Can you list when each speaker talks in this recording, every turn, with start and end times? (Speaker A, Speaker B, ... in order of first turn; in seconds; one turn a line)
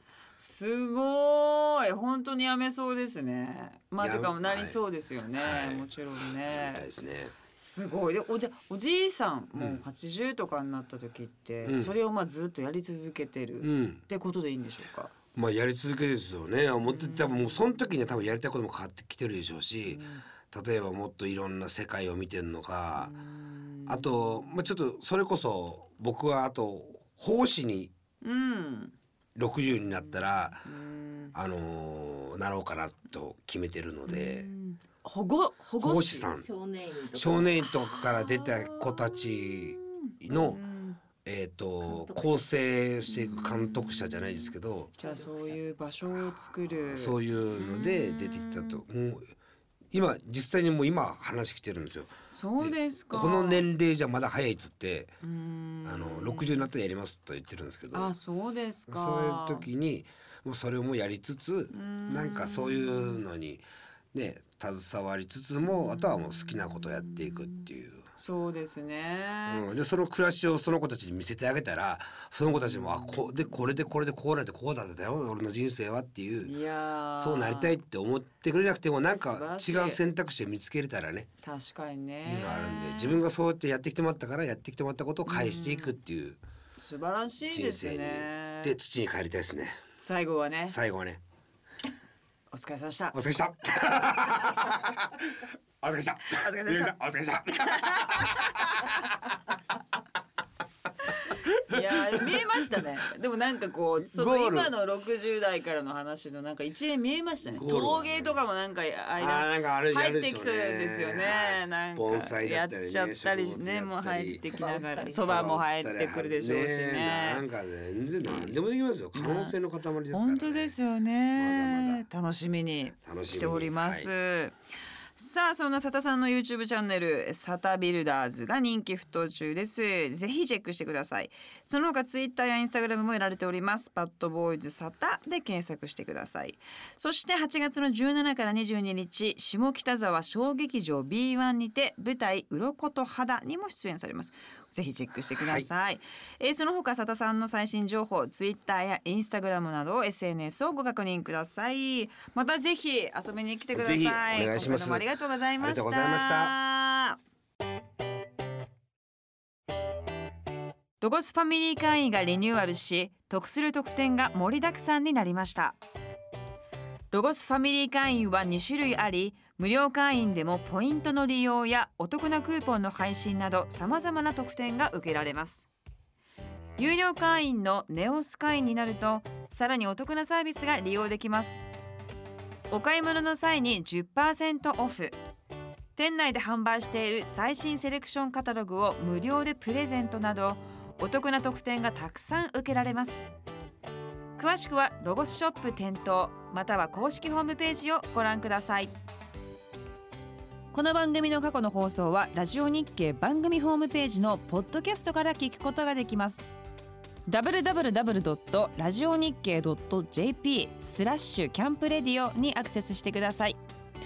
Speaker A: 0.4-6.9
Speaker B: 4.0-4.8
Speaker B: 5.4-5.9
Speaker B: 6.5-7.4
Speaker A: 7.5-15.1
Speaker B: 9.6-9.8
Speaker B: 11.6-11.9
Speaker B: 13.6-14.0
Speaker B: 15.3-23.1
Speaker A: 16.9-17.6
Speaker A: 19.9-20.2
Speaker A: 23.0-24.6
Speaker B: 23.9-27.9
Speaker A: 28.2-28.9
Speaker B: 29.4-30.7
Speaker A: 30.1-31.3
Speaker B: 31.3-34.5
Speaker A: 34.1-36.3
Speaker B: 35.8-36.5
Speaker C: 36.4-37.7
Speaker B: 37.1-40.6
Speaker A: 37.9-41.0
Speaker B: 41.2-44.9
Speaker C: 41.8-42.4
Speaker A: 43.1-44.5
Speaker C: 44.9-45.6
Speaker A: 45.0-48.8
Speaker B: 46.1-49.3
Speaker B: 49.9-55.1
Speaker A: 52.3-53.7
Speaker A: 55.2-56.7
Speaker B: 55.9-58.1
Speaker A: 57.9-59.7
Speaker B: 58.9-68.1
Speaker A: 61.7-63.2
Speaker A: 65.7-67.7
Speaker A: 68.2-69.7
Speaker B: 69.5-76.5
Speaker A: 72.5-73.3
Speaker A: 76.4-77.8
Speaker B: 77.2-81.3
Speaker A: 79.1-80.0
Speaker A: 81.4-83.2
Speaker B: 82.2-86.4
Speaker A: 85.3-86.0
Speaker A: 86.8-88.8
Speaker B: 87.5-89.8
Speaker A: 90.0-90.8
Speaker B: 90.7-91.2
Speaker A: 92.5-93.2
Speaker B: 93.1-99.0
Speaker A: 96.2-97.0
Speaker A: 97.6-98.9
Speaker A: 101.1-117.4
Speaker B: 101.7-102.3
Speaker B: 104.0-104.7
Speaker B: 107.5-108.4
Speaker B: 109.2-114.4
Speaker C: 114.5-115.6
Speaker B: 115.2-120.8
Speaker A: 118.2-118.6
Speaker A: 119.1-119.5
Speaker A: 120.1-124.6
Speaker B: 121.3-122.0
Speaker B: 123.0-124.1
Speaker A: 125.2-157.2
Speaker B: 145.4-145.7
Speaker B: 153.7-155.1
Speaker B: 155.6-156.6
Speaker A: 161.0-165.8
Speaker A: 167.1-175.7
Speaker A: 176.8-181.7
Speaker A: 182.7-185.2
Speaker A: 186.0-193.3
Speaker A: 194.4-198.9
Speaker A: 200.7-206.4
Speaker A: 207.3-213.6